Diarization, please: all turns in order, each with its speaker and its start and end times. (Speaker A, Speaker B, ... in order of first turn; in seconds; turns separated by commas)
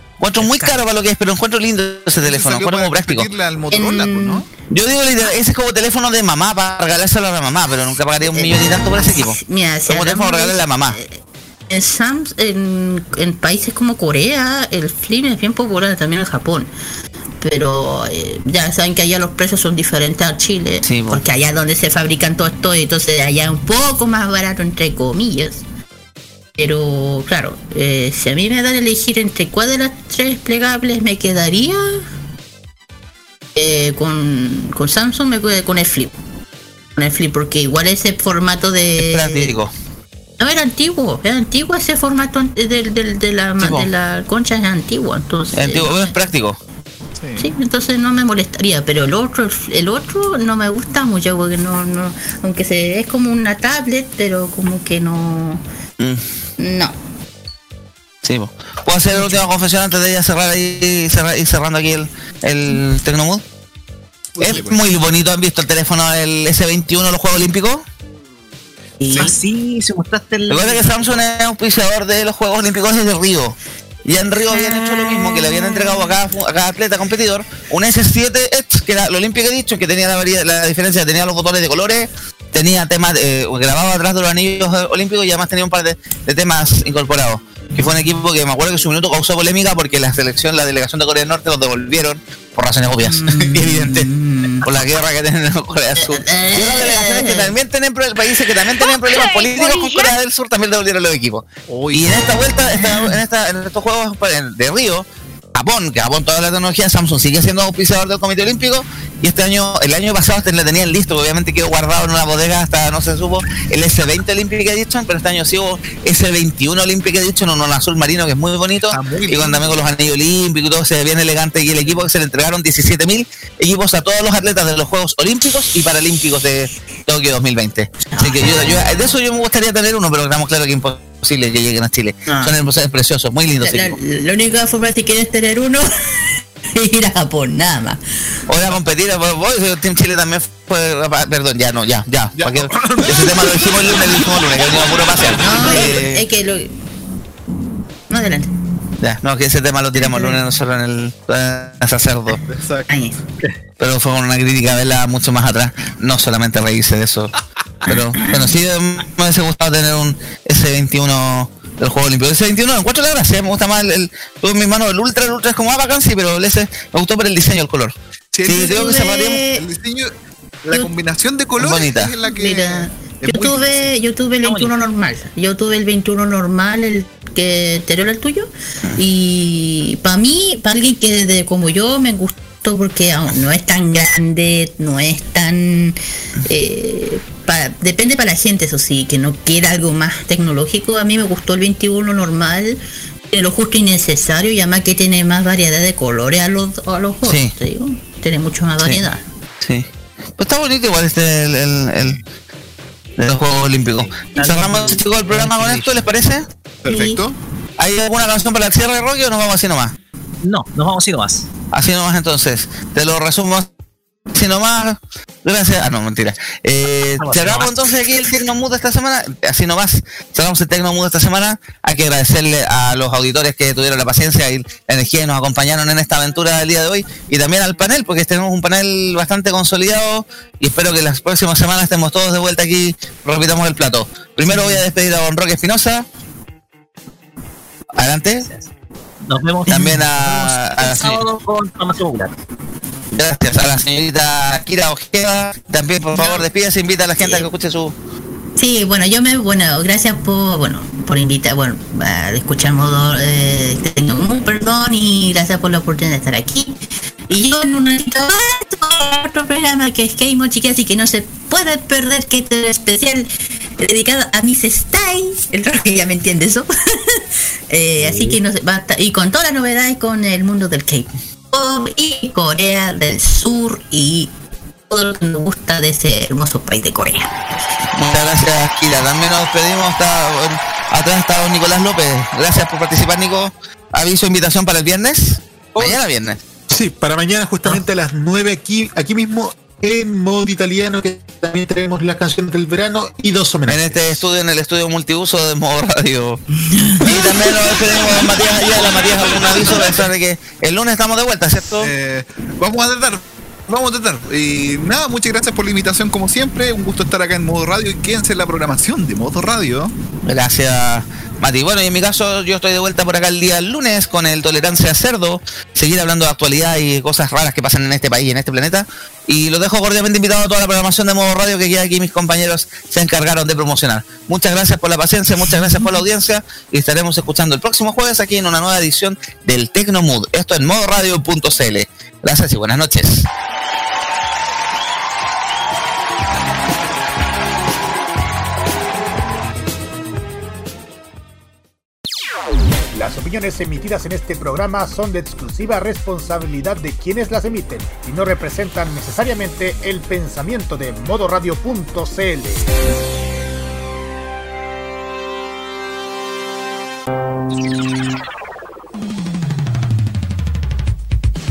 Speaker A: 0.2-3.3, Speaker B: 0.4-0.8, Speaker C: 2.2-4.5, Speaker B: 3.7-4.4, Speaker A: 4.7-11.0, Speaker B: 8.3-16.7, Speaker B: 17.4-25.6, Speaker A: 20.8-21.2, Speaker B: 26.6-32.0, Speaker B: 33.5-36.1, Speaker B: 37.0-39.5, Speaker A: 39.0-39.7, Speaker B: 40.4-46.1, Speaker A: 43.6-43.9, Speaker A: 45.5-46.6, Speaker C: 47.2-47.5, Speaker B: 47.4-55.6, Speaker A: 56.0-56.2, Speaker B: 56.6-56.9, Speaker A: 58.2-63.4, Speaker B: 59.1-59.4, Speaker C: 64.3-64.8, Speaker A: 64.4-67.8, Speaker B: 69.0-69.4, Speaker D: 69.1-71.2, Speaker A: 70.5-94.1, Speaker B: 93.0-94.7, Speaker A: 94.6-134.0, Speaker B: 96.0-97.5, Speaker C: 101.7-102.3, Speaker B: 102.8-103.1, Speaker C: 118.9-119.8, Speaker B: 128.1-128.4, Speaker B: 132.3-132.5, Speaker B: 133.6-138.0, Speaker A: 138.5-146.2, Speaker C: 142.4-144.0, Speaker B: 145.4-146.7, Speaker B: 148.1-148.5, Speaker A: 149.0-152.4, Speaker B: 149.9-150.4, Speaker C: 152.3-152.9, Speaker B: 152.9-153.2, Speaker A: 153.8-157.3, Speaker A: 157.8-167.9, Speaker B: 157.9-158.4, Speaker C: 168.3-169.0, Speaker A: 168.5-169.4, Speaker B: 168.6-169.6, Speaker C: 169.5-170.1, Speaker C: 170.6-173.9, Speaker A: 171.6-172.1, Speaker B: 172.3-192.8, Speaker D: 174.4-174.8, Speaker B: 193.3-199.2, Speaker A: 197.2-197.5, Speaker A: 199.6-199.9, Speaker A: 200.4-202.2, Speaker A: 203.2-206.5, Speaker D: 204.2-205.9, Speaker C: 206.8-207.4, Speaker B: 206.9-207.2, Speaker A: 207.8-209.9, Speaker D: 210.4-211.5, Speaker A: 211.7-213.7, Speaker A: 214.3-236.1, Speaker D: 217.2-217.8, Speaker D: 234.4-234.8, Speaker A: 237.9-238.5, Speaker D: 238.4-238.7, Speaker D: 239.3-242.3, Speaker A: 239.7-241.2, Speaker A: 243.1-247.9, Speaker C: 246.1-246.4, Speaker B: 247.2-247.4, Speaker B: 248.6-256.8, Speaker B: 257.3-263.3, Speaker B: 263.8-274.3, Speaker B: 274.9-277.3, Speaker A: 277.9-286.4, Speaker E: 286.7-293.9, Speaker A: 293.7-296.4, Speaker B: 296.7-297.1, Speaker A: 297.0-301.9, Speaker C: 301.8-309.9, Speaker A: 310.2-333.3, Speaker F: 342.9-352.7